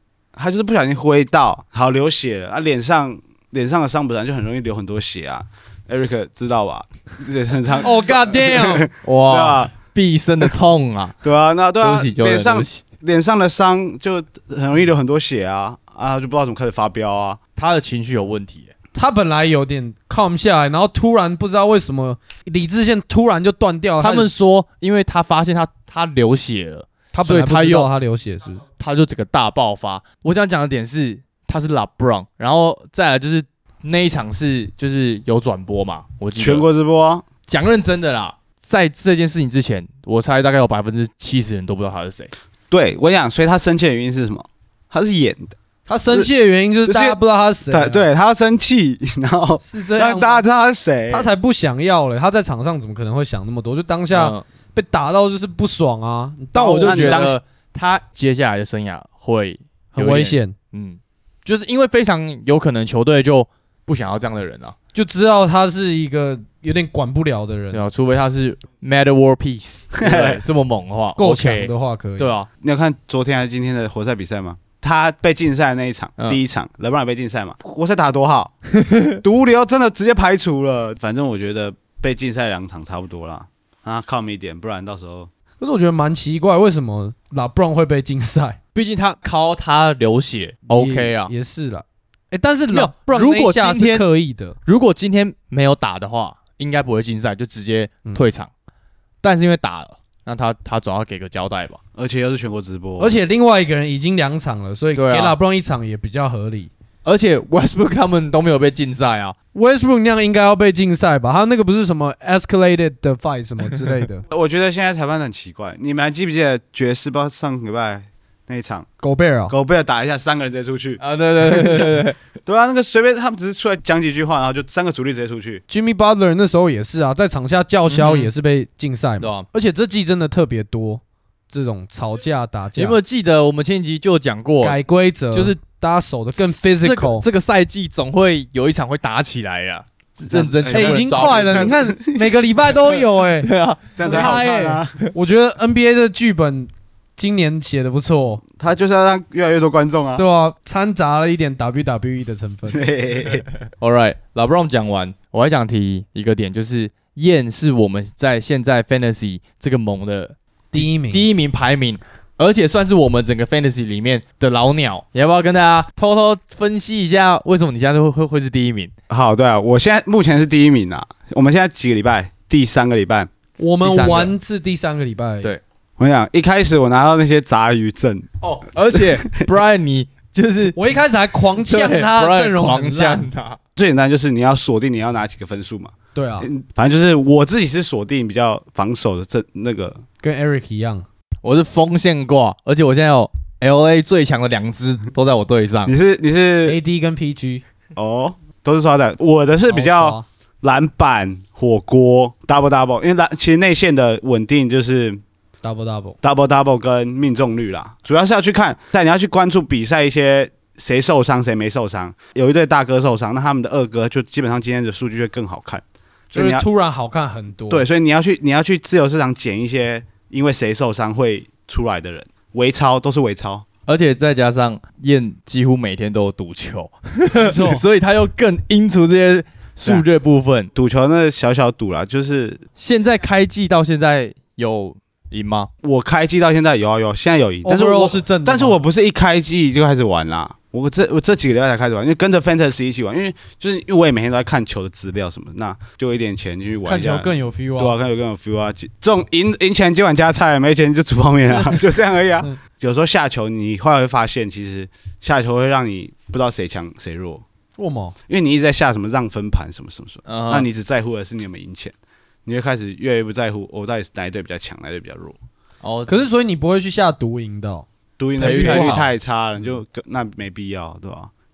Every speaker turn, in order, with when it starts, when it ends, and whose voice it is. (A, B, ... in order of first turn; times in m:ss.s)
0:00.4-0:09.7 A
0:07.8-0:08.9 B
0:09.0-0:11.2 C
0:11.2-0:17.4 A
0:11.8-0:12.8 C
0:17.6-0:18.7 C
0:18.9-0:24.3 B
0:24.0-0:27.9 C
0:27.1-0:28.6 B
0:28.8-0:36.6 C
0:36.4-0:37.2 A
0:37.5-0:42.3 C
0:42.7-0:45.5 A
0:45.9-0:48.1 B
0:46.8-0:47.2 A
0:47.7-0:51.3 A
0:49.6-0:50.4 B
0:51.1-0:57.3 B
0:54.1-0:54.4 C
0:56.5-1:04.8 C
0:56.8-0:57.4 A
0:59.9-1:00.5 B
1:04.9-1:07.8 B
1:07.7-1:12.5 C
1:10.0-1:10.4 A
1:11.2-1:12.3 B
1:12.6-1:18.5 A
1:18.8-1:19.2 C
1:19.1-1:25.3 A
1:25.6-1:28.6 B
1:28.8-1:31.3 C
1:30.7-1:34.6 B
1:32.7-1:34.0 C
1:34.6-1:38.5 C
1:39.2-1:41.8 C
1:42.0-1:43.2 A
1:43.0-1:46.7 B
1:44.9-1:45.4 C
1:47.0-1:49.4 C
1:49.5-1:54.2 B
1:54.3-1:58.9 A
1:59.0-1:59.5 B
1:59.5-2:05.6 A
2:01.0-2:02.2 C
2:05.7-2:13.0 B
2:07.9-2:08.3 C
2:09.2-2:09.4 C
2:12.8-2:14.8 C
2:14.6-2:17.2 B
2:15.3-2:15.6 C
2:16.4-2:21.8 C
2:20.3-2:22.4 A
2:20.7-2:23.5 B
2:23.4-2:24.4 C
2:24.0-2:25.0 A
2:24.0-2:28.4 B
2:28.6-2:30.2 A
2:30.2-2:32.8 B
2:32.7-2:33.5 A
2:33.7-2:48.9 C
2:40.7-2:41.2 B
2:49.1-2:53.3 A
2:53.6-2:55.5 B
2:53.8-2:54.3 C
2:56.0-2:58.3 A
2:58.4-3:00.8 C
2:58.9-2:59.4 A
3:00.8-3:03.2 B
3:01.6-3:03.6 C
3:03.8-3:10.0 A
3:06.1-3:06.5 B
3:10.2-3:11.0 B
3:11.4-3:15.9 C
3:15.9-3:16.8 A
3:16.6-3:17.6 B
3:18.0-3:25.2 A
3:19.7-3:20.2 B
3:25.6-3:26.2 B
3:26.2-3:36.6 A
3:36.3-3:37.9 B
3:37.7-3:43.6 A
3:43.9-3:50.7 C
3:47.3-3:47.8 B
3:50.8-3:52.6 A
3:52.8-3:55.7 C
3:55.8-4:17.4 A
3:57.6-3:58.8 B
4:06.9-4:07.9 B
4:11.5-4:11.8 B
4:17.8-4:18.2 B
4:18.3-4:21.9 A
4:20.2-4:20.7 C
4:22.4-4:25.4 A
4:25.8-4:26.3 C
4:26.1-4:27.9 B
4:28.2-4:31.3 A
4:28.4-4:29.0 B
4:28.4-4:29.1 C